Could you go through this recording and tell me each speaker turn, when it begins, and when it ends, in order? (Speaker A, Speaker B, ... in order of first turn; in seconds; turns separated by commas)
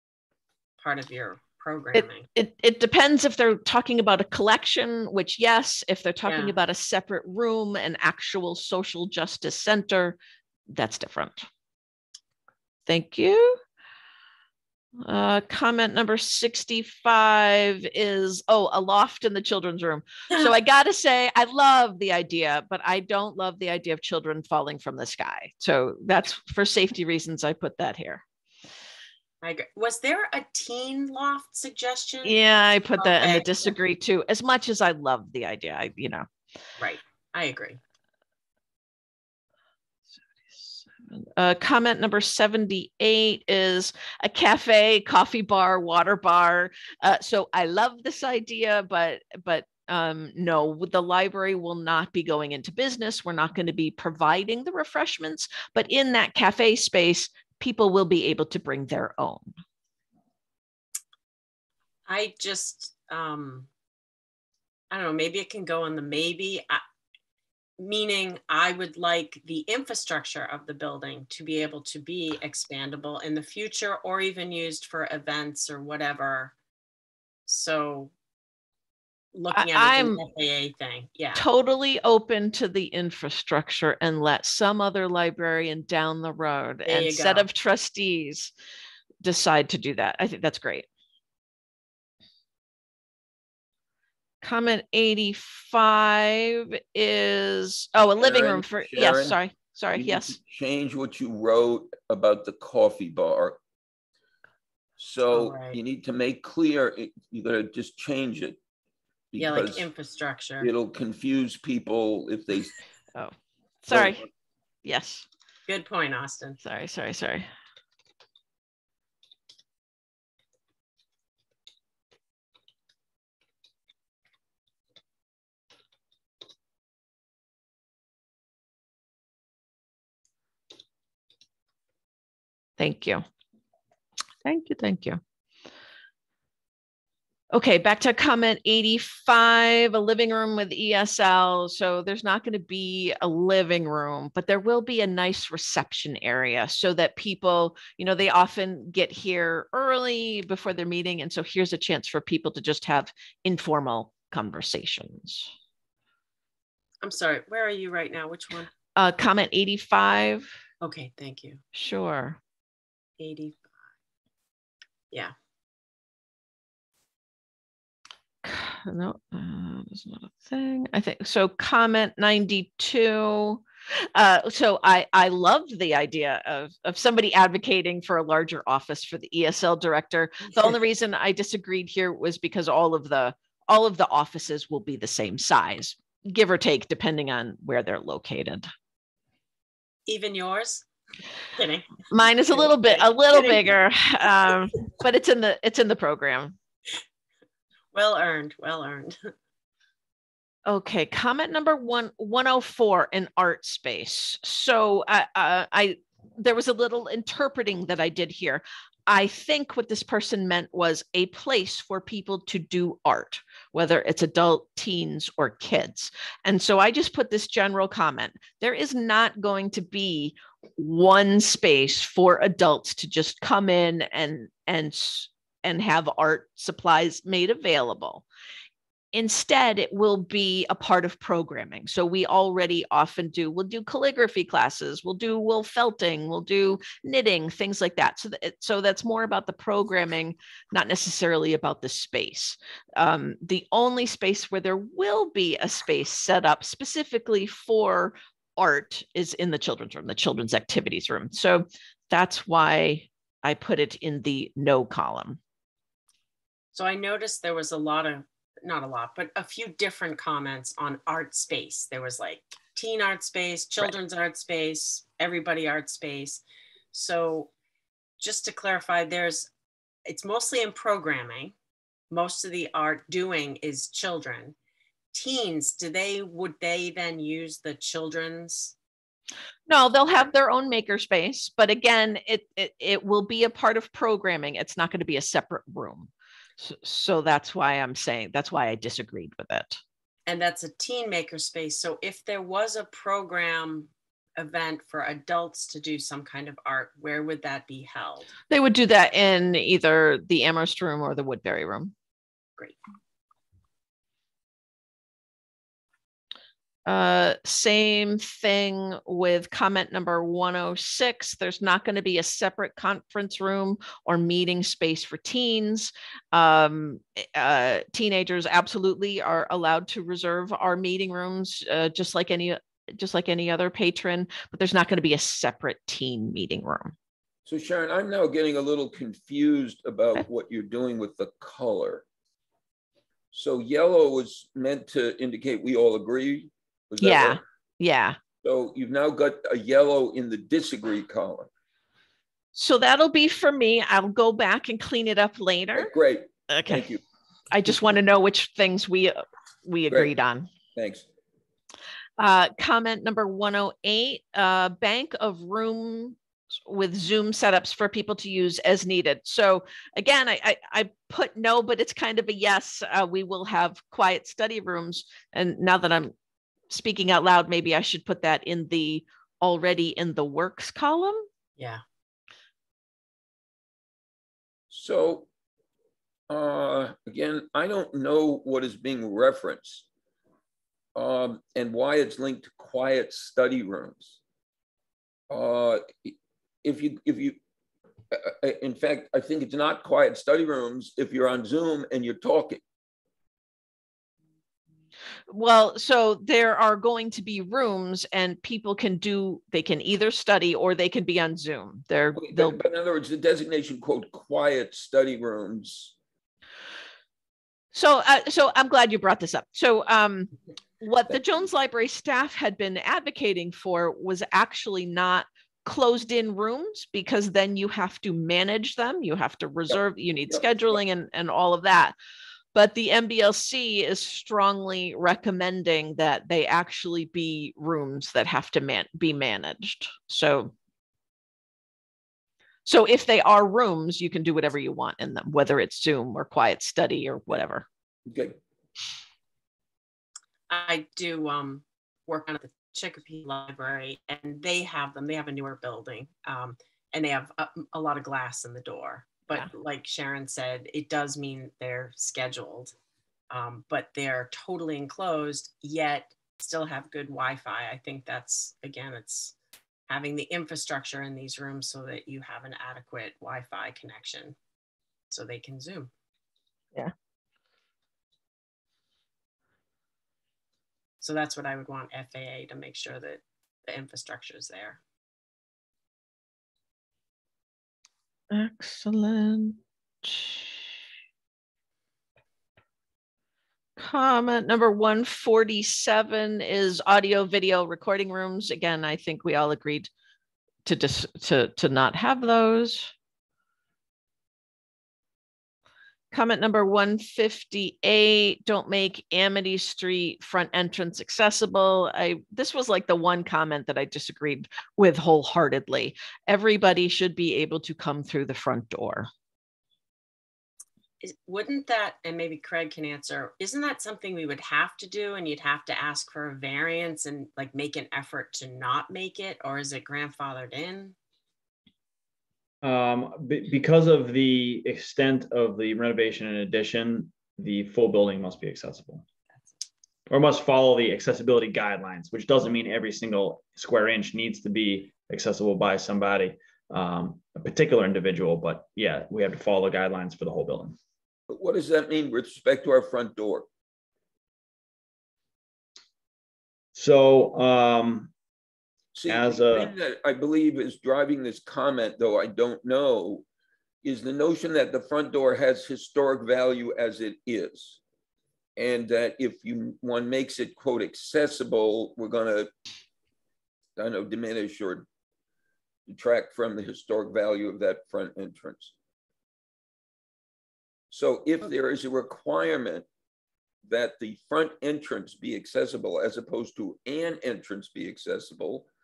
Speaker A: 0.8-2.3, Speaker B: 1.9-10.2, Speaker A: 6.3-6.5, Speaker B: 10.7-11.5, Speaker B: 12.9-13.6, Speaker B: 15.0-28.2, Speaker A: 29.4-32.4, Speaker B: 32.2-36.3, Speaker A: 33.0-33.7, Speaker A: 36.8-37.8, Speaker B: 40.5-59.5, Speaker A: 62.1-63.7, Speaker A: 64.9-66.8, Speaker A: 67.8-76.5, Speaker A: 77.5-78.1, Speaker A: 79.3-81.5, Speaker B: 79.5-80.2, Speaker B: 81.3-88.5, Speaker A: 86.8-87.5, Speaker B: 89.2-90.9, Speaker B: 94.4-100.4, Speaker C: 98.2-99.4, Speaker C: 100.0-103.6, Speaker C: 105.0-108.6, Speaker A: 105.3-105.8, Speaker C: 109.3-109.9, Speaker A: 109.4-110.7, Speaker C: 110.6-112.7, Speaker B: 113.1-114.3, Speaker C: 113.9-114.2, Speaker B: 114.8-115.3, Speaker A: 115.7-116.6, Speaker B: 116.6-117.5, Speaker B: 132.8-133.2, Speaker B: 134.4-135.2, Speaker B: 137.5-155.5, Speaker A: 157.0-158.7, Speaker B: 158.9-160.5, Speaker A: 160.8-161.6, Speaker B: 161.7-162.4, Speaker A: 163.2-163.7, Speaker B: 168.4-188.7, Speaker A: 190.1-190.9, Speaker A: 191.5-193.7, Speaker B: 192.1-196.6, Speaker A: 197.9-199.3, Speaker B: 200.7-228.2, Speaker B: 229.1-255.4, Speaker A: 256.7-266.4, Speaker A: 266.9-267.5, Speaker A: 268.2-269.5, Speaker A: 270.1-271.6, Speaker A: 272.1-274.6, Speaker A: 275.1-278.7, Speaker B: 279.7-289.8, Speaker A: 290.3-298.3, Speaker B: 298.5-301.9, Speaker B: 306.9-326.9, Speaker C: 327.4-332.0, Speaker C: 333.3-337.4, Speaker B: 337.0-338.2, Speaker C: 338.4-341.5, Speaker B: 342.6-345.9, Speaker C: 345.7-347.0, Speaker B: 346.5-346.9, Speaker B: 347.5-350.5, Speaker C: 350.7-351.1, Speaker B: 352.2-366.1, Speaker B: 366.7-371.3, Speaker C: 374.7-375.3, Speaker C: 376.3-379.9, Speaker C: 380.9-384.2, Speaker C: 385.3-387.4, Speaker C: 388.1-392.6, Speaker B: 395.3-402.6, Speaker C: 402.2-405.9, Speaker B: 407.7-421.9, Speaker C: 419.7-420.4, Speaker B: 422.5-430.5, Speaker B: 432.7-437.7, Speaker C: 438.1-438.4, Speaker A: 440.5-452.7, Speaker A: 453.3-459.4, Speaker A: 459.9-464.4, Speaker A: 465.1-465.9, Speaker A: 471.0-474.8, Speaker B: 478.3-480.6, Speaker B: 483.8-489.9, Speaker B: 490.6-492.9, Speaker B: 496.1-509.1, Speaker A: 511.0-521.0, Speaker D: 522.6-529.0, Speaker D: 530.1-540.8, Speaker C: 541.3-543.5, Speaker D: 546.7-548.1, Speaker C: 549.0-553.2, Speaker D: 549.1-549.7, Speaker C: 553.8-557.8, Speaker C: 558.5-562.5, Speaker C: 563.8-564.9, Speaker C: 565.9-568.7, Speaker C: 570.9-572.9, Speaker C: 573.6-578.7